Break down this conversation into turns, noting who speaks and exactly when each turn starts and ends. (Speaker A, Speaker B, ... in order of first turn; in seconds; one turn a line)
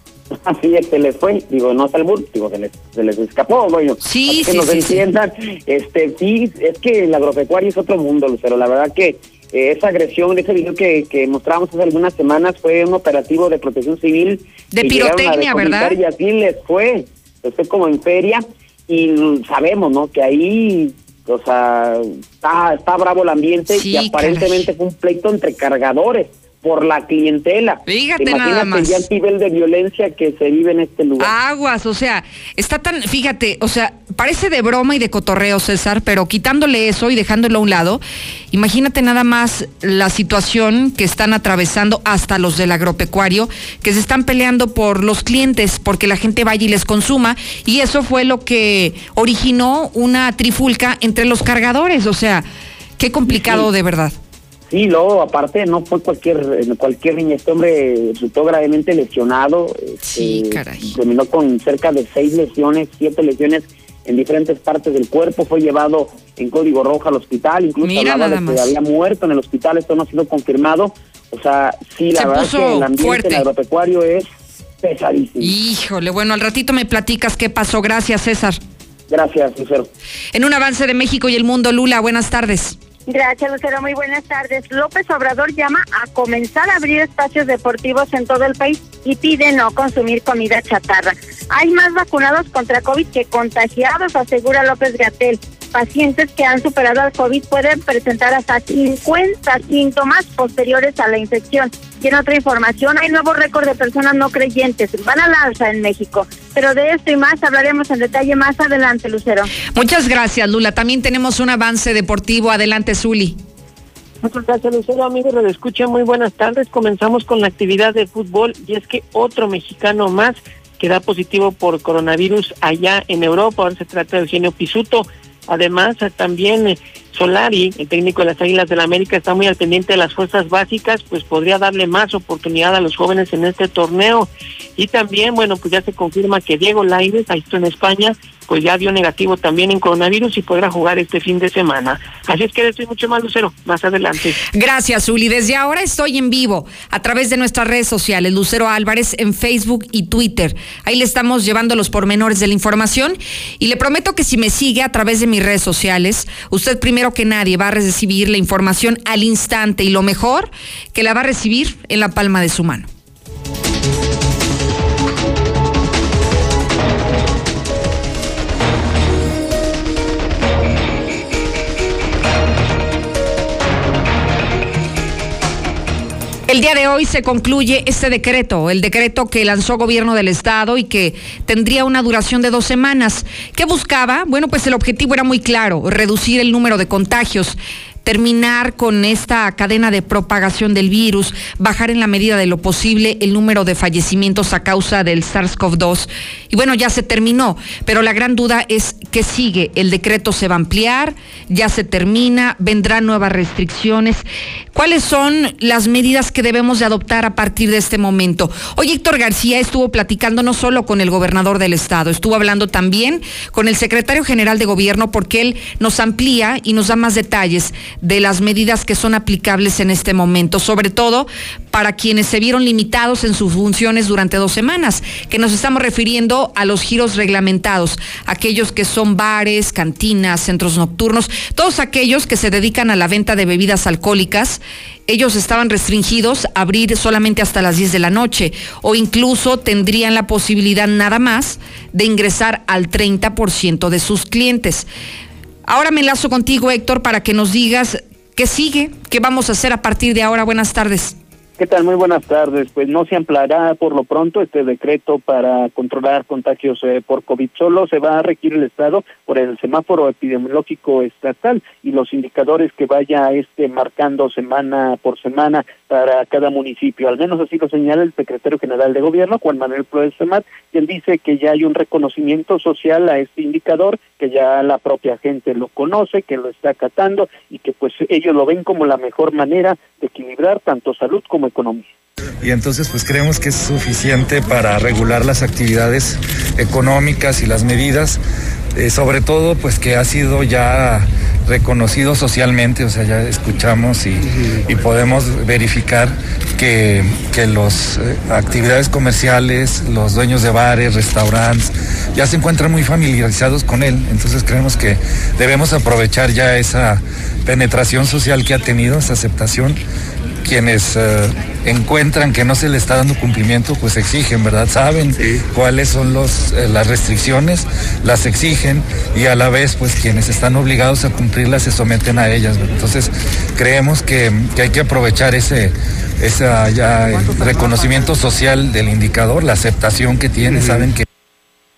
Speaker A: 0.3-31.3
Speaker B: 4.0-5.0
Speaker B: 14.7-16.0
Speaker B: 23.8-24.7
Speaker B: 27.9-29.0
Speaker B: 31.2-38.0
Speaker B: 38.5-52.5
Speaker B: 53.0-54.1
Speaker A: 53.3-53.7
Speaker A: 54.7-74.3
Speaker B: 60.0-60.9
Speaker B: 67.8-68.7
Speaker B: 72.1-73.5
Speaker A: 74.8-75.5
Speaker B: 75.4-78.6
Speaker A: 79.1-79.9
Speaker B: 80.3-82.8
Speaker C: 83.1-109.5
Speaker B: 109.7-113.4
Speaker D: 114.2-144.4
Speaker B: 144.5-162.9
Speaker B: 176.5-244.9
Speaker B: 245.7-251.2
Speaker E: 251.6-281.9
Speaker F: 282.4-288.2
Speaker F: 288.8-309.8
Speaker F: 310.4-331.1